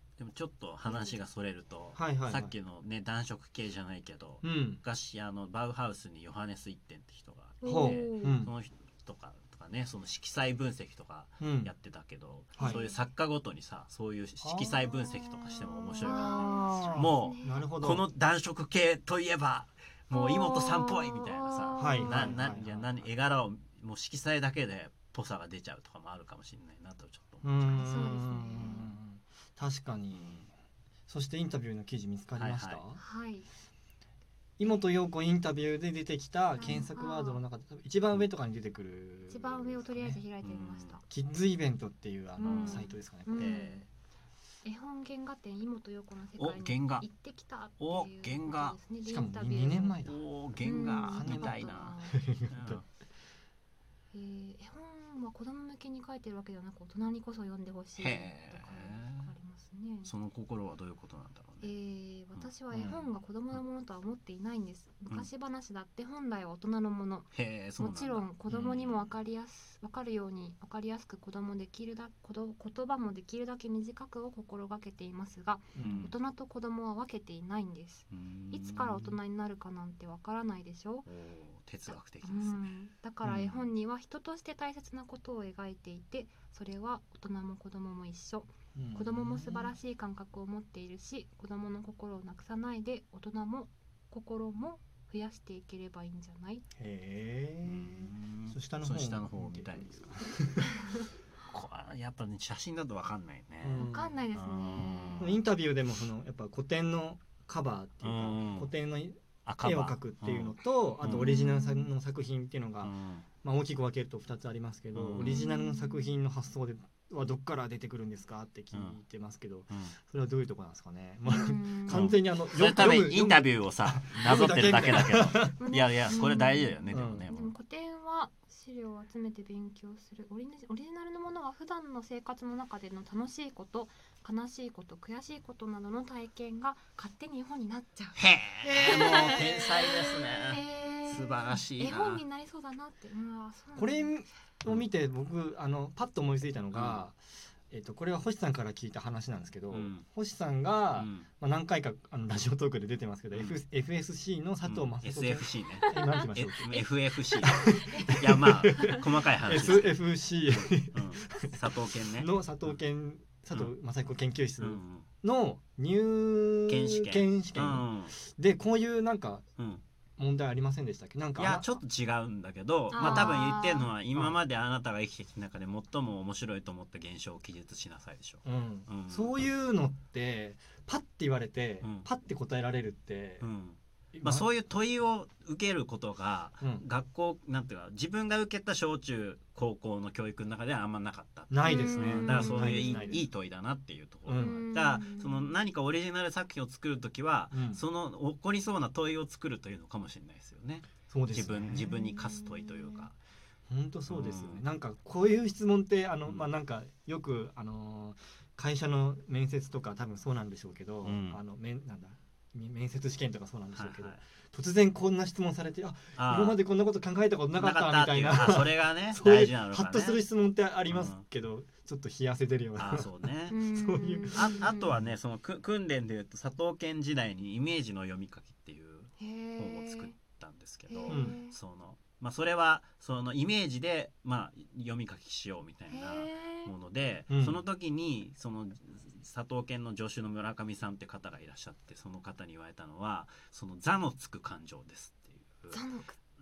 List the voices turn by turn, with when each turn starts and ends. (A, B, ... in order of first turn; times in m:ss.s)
0:00.2-0:27.5 A
0:00.8-0:01.2 B
0:02.0-0:02.5 C
0:04.4-0:04.8 C
0:07.6-0:08.4 B
0:07.7-0:08.5 C
0:11.4-0:11.7 C
0:12.6-0:13.1 B
0:12.6-0:12.8 C
0:14.4-0:18.0 C
0:16.0-0:17.7 B
0:20.1-0:22.4 B
0:21.8-0:22.9 C
0:27.4-0:30.5 C
0:27.7-0:28.9 B
0:30.1-0:30.5 A
0:31.1-0:33.0 C
0:32.4-0:32.8 A
0:33.0-0:33.5 B
0:34.6-0:40.2 C
0:36.6-0:37.4 B
0:39.3-0:41.0 B
0:40.4-0:41.0 A
0:41.1-0:43.6 C
0:42.4-0:43.8 B
0:42.4-0:43.9 A
0:44.6-0:50.0 B
0:46.4-0:47.1 A
0:47.8-0:48.8 A
0:49.0-0:52.8 C
0:50.0-0:52.0 A
0:50.6-0:52.2 B
0:52.5-0:52.8 A
0:54.1-1:00.1 B
0:58.0-0:59.3 A
1:00.0-1:01.7 A
1:01.6-1:21.1 B
1:02.3-1:03.6 A
1:07.3-1:09.0 A
1:15.8-1:16.1 C
1:15.8-1:16.1 A
1:18.1-1:19.2 A
1:21.1-1:22.7 A
1:21.9-1:36.6 B
1:23.3-1:23.7 A
1:28.8-1:29.8 C
1:36.8-1:40.9 C
1:37.7-1:40.0 A
1:41.5-1:45.4 A
1:43.6-1:44.2 C
1:43.8-1:45.3 B
1:45.2-2:05.6 C
1:48.0-1:48.7 A
1:49.5-1:51.4 A
1:51.2-1:51.9 B
1:52.8-1:53.3 A
1:54.9-1:55.4 A
1:55.2-1:56.1 B
1:58.7-1:59.0 A
2:01.3-2:02.1 B
2:01.9-2:07.6 A
2:05.6-2:06.8 B
2:06.9-2:07.3 C
2:07.3-2:24.2 B
2:18.2-2:22.2 A
2:18.6-2:19.5 C
2:23.8-2:27.2 C
2:26.7-2:27.0 A
2:27.7-2:36.8 C
2:29.7-2:30.1 A
2:30.9-2:31.3 A
2:33.3-2:33.6 A
2:34.6-2:42.8 A
2:35.8-2:39.0 B
2:37.4-2:49.5 C
2:44.6-2:45.1 A
2:46.7-2:48.2 A
2:49.6-2:49.8 A
2:50.2-2:51.8 C
2:51.4-2:59.4 A
2:52.9-2:53.9 B
2:53.0-2:53.4 C
2:58.4-3:03.5 C
3:01.8-3:02.1 A
3:03.4-3:23.2 A
3:04.1-3:04.5 C
3:06.6-3:06.9 C
3:11.5-3:13.3 C
3:11.6-3:13.2 B
3:14.3-3:14.7 C
3:14.4-3:15.6 B
3:17.5-3:17.8 C
3:21.1-3:22.0 C
3:21.9-3:23.1 B
3:23.7-3:45.1 C
3:24.1-3:24.6 A
3:31.0-3:31.4 A
3:33.7-3:34.2 A
3:36.2-3:36.6 A
3:37.6-3:40.2 A
3:40.9-3:41.2 A
3:42.8-3:43.6 A
3:43.5-3:44.9 B
3:44.3-4:05.8 A
3:49.2-3:50.2 B
3:50.9-3:51.6 B
3:51.1-3:51.4 C
3:55.9-3:56.8 B
3:57.3-3:57.6 C
4:05.7-4:06.2 B